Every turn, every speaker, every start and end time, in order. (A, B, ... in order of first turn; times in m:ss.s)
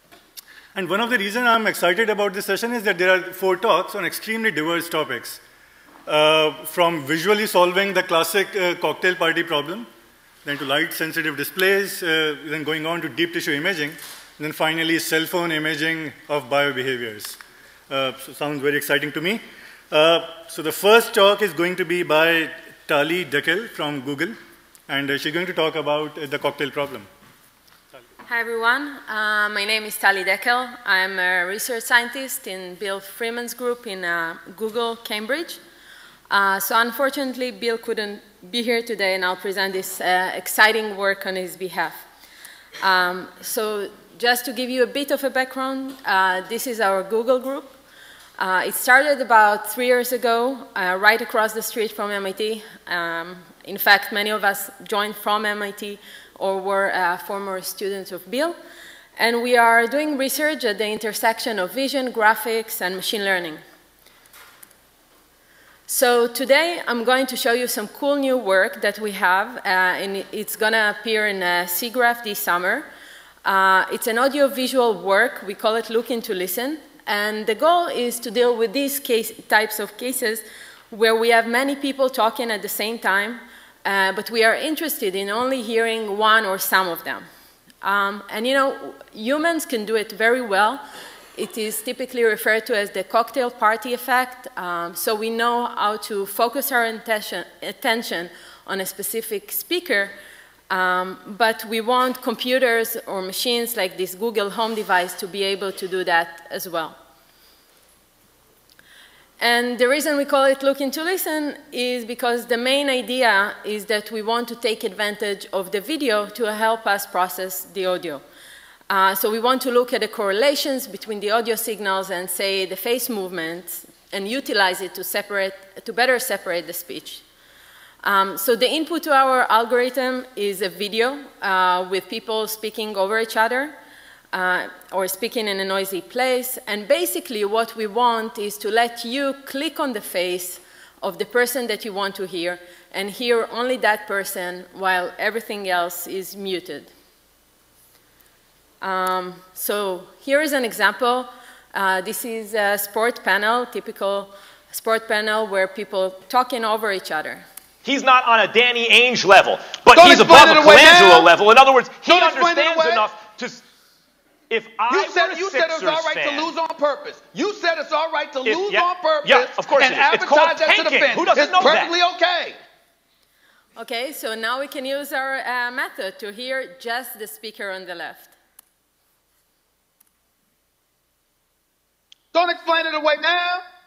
0:00.7-0:05.4 A
0:06.0-0:09.9 A
0:10.4-0:24.4 A
0:24.9-0:27.1 A
0:28.2-0:35.6 B
0:36.3-0:42.0 B
0:42.8-0:47.8 B
0:48.4-0:58.6 B
0:59.2-1:03.6 B
1:05.9-1:12.9 B
1:13.4-1:27.2 B
1:27.8-1:30.8 B
1:31.3-1:40.1 B
1:40.7-1:47.0 B
1:49.4-1:58.2 B
1:58.9-2:07.2 B
2:08.0-2:13.8 B
2:14.3-2:26.9 B
2:28.8-2:37.4 B
2:37.8-2:43.6 C
2:39.9-2:41.3 D
2:42.0-2:43.1 D
2:44.5-2:46.5 C
2:44.9-2:52.6 D
2:48.4-2:51.9 C
2:53.8-2:58.3 B
3:02.3-3:03.6 D